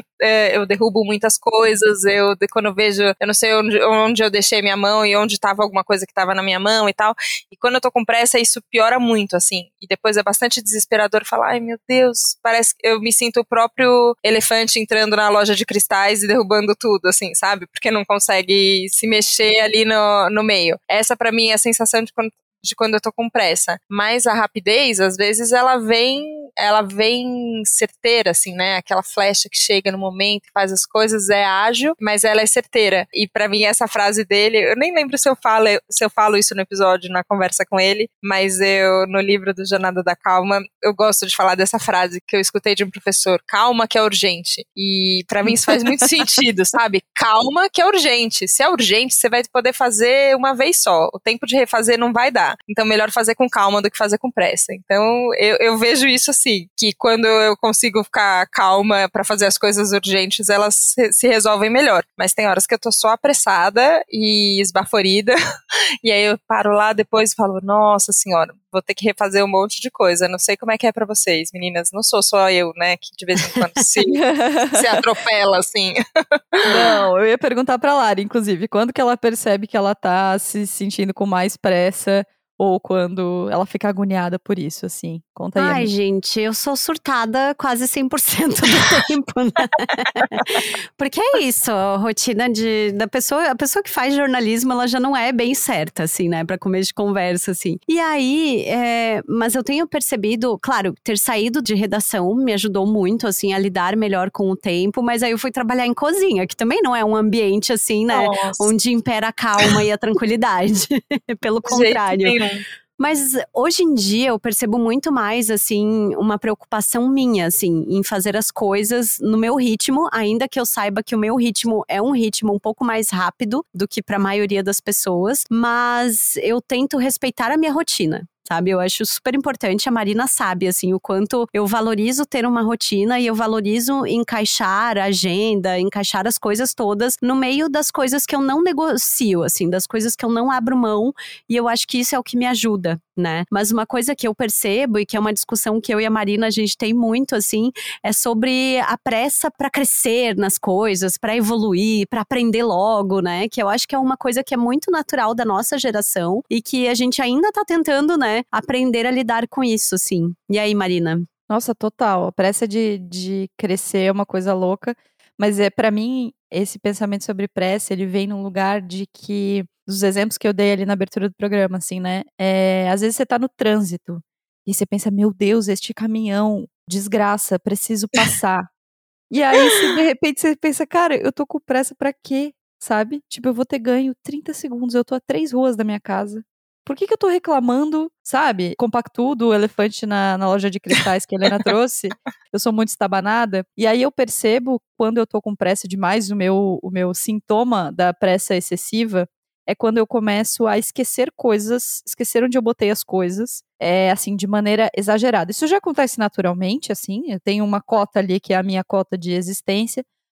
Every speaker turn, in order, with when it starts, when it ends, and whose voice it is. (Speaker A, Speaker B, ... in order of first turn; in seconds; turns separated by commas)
Speaker A: 0.2-65.3, Speaker B: 45.5-46.0, Speaker A: 66.0-76.0, Speaker B: 74.1-75.0, Speaker B: 76.7-85.9, Speaker C: 85.6-112.3, Speaker A: 108.1-108.7, Speaker A: 111.7-112.6, Speaker C: 113.0-161.3, Speaker B: 161.5-178.7, Speaker B: 179.3-210.0, Speaker A: 179.6-179.9